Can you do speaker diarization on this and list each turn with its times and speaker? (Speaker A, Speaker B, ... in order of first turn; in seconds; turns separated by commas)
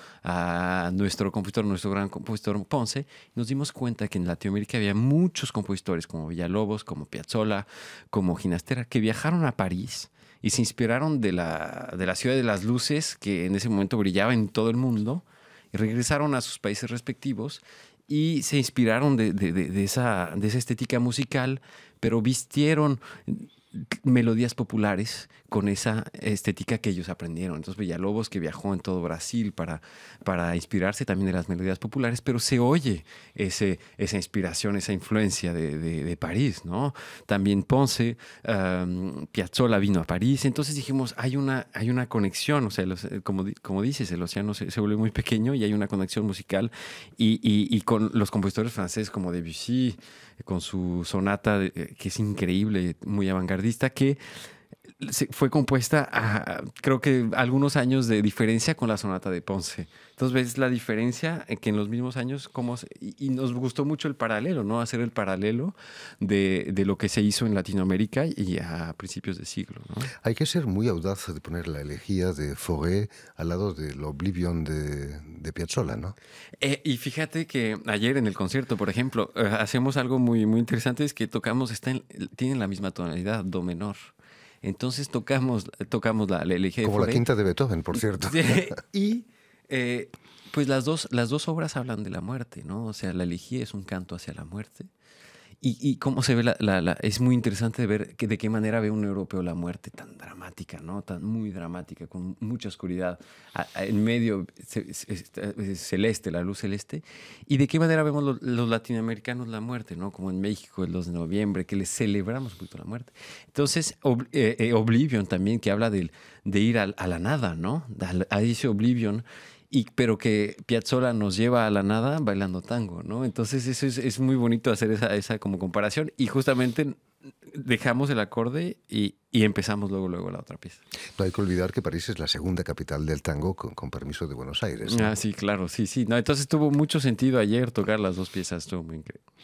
Speaker A: 0.2-54.2, Speaker A: 55.0-70.1, Speaker B: 70.2-76.2, Speaker A: 76.6-87.3, Speaker B: 86.8-88.7, Speaker A: 88.2-94.9, Speaker A: 95.6-130.8, Speaker B: 131.2-135.1, Speaker A: 134.9-139.2